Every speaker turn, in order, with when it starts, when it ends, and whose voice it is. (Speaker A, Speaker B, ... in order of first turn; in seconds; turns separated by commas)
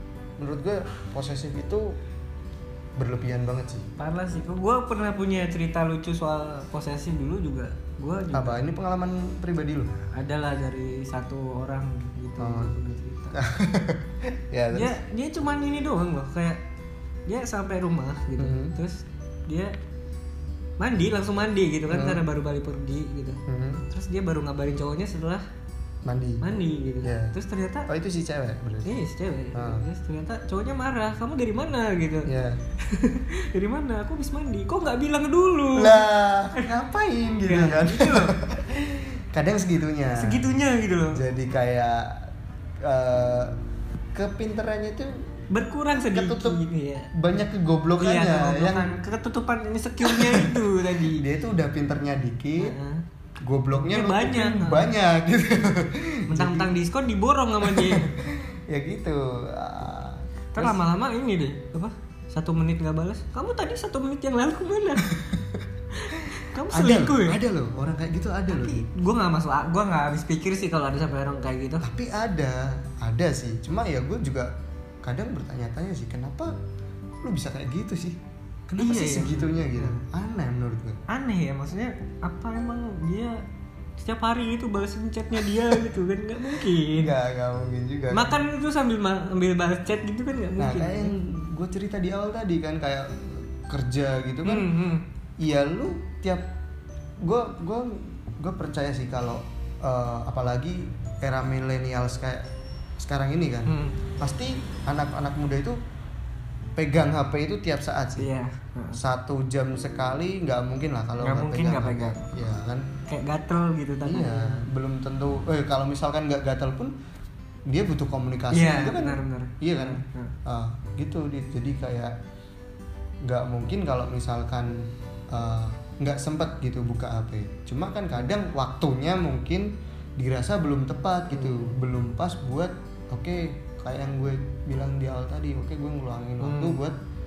Speaker A: 0.4-1.9, Speaker A: 3.0-3.9, Speaker B: 4.0-8.6, Speaker A: 8.3-9.9, Speaker B: 10.1-13.4, Speaker A: 12.4-12.7, Speaker A: 13.3-14.9, Speaker B: 14.7-16.6, Speaker B: 17.3-19.7, Speaker A: 18.4-18.8, Speaker B: 20.8-25.4, Speaker A: 21.9-22.2, Speaker A: 23.5-23.8, Speaker A: 26.0-26.4, Speaker B: 26.4-27.9, Speaker A: 27.0-27.3, Speaker A: 27.9-29.0, Speaker B: 28.8-32.3, Speaker A: 29.5-29.8, Speaker A: 32.2-32.6, Speaker B: 32.8-36.0, Speaker A: 35.7-40.4, Speaker B: 37.4-38.3, Speaker B: 40.1-41.2, Speaker A: 41.1-43.6, Speaker A: 44.1-45.3, Speaker B: 45.5-47.1, Speaker A: 46.1-46.6, Speaker A: 47.1-48.9, Speaker B: 48.0-51.2, Speaker A: 50.0-52.8, Speaker B: 52.6-53.0, Speaker A: 53.4-56.7, Speaker B: 53.7-54.9, Speaker B: 56.3-58.1, Speaker A: 57.6-60.8, Speaker B: 60.5-65.1, Speaker A: 65.0-68.9, Speaker B: 66.0-67.4, Speaker B: 68.5-71.9, Speaker A: 71.8-76.5, Speaker A: 77.2-81.0, Speaker B: 78.8-80.0, Speaker B: 81.1-83.4, Speaker B: 84.0-87.1, Speaker A: 85.4-85.8, Speaker A: 86.5-88.4, Speaker B: 88.1-91.1, Speaker A: 90.6-94.7, Speaker B: 94.4-95.0, Speaker A: 95.4-96.5, Speaker A: 97.2-105.8, Speaker B: 103.7-104.0, Speaker A: 106.8-108.3, Speaker B: 108.2-109.0, Speaker A: 108.9-112.8, Speaker B: 111.2-112.4, Speaker B: 113.1-114.7, Speaker A: 114.0-116.9, Speaker A: 117.7-122.2, Speaker B: 118.5-120.3, Speaker A: 123.2-136.9, Speaker B: 131.3-131.7, Speaker B: 136.4-136.8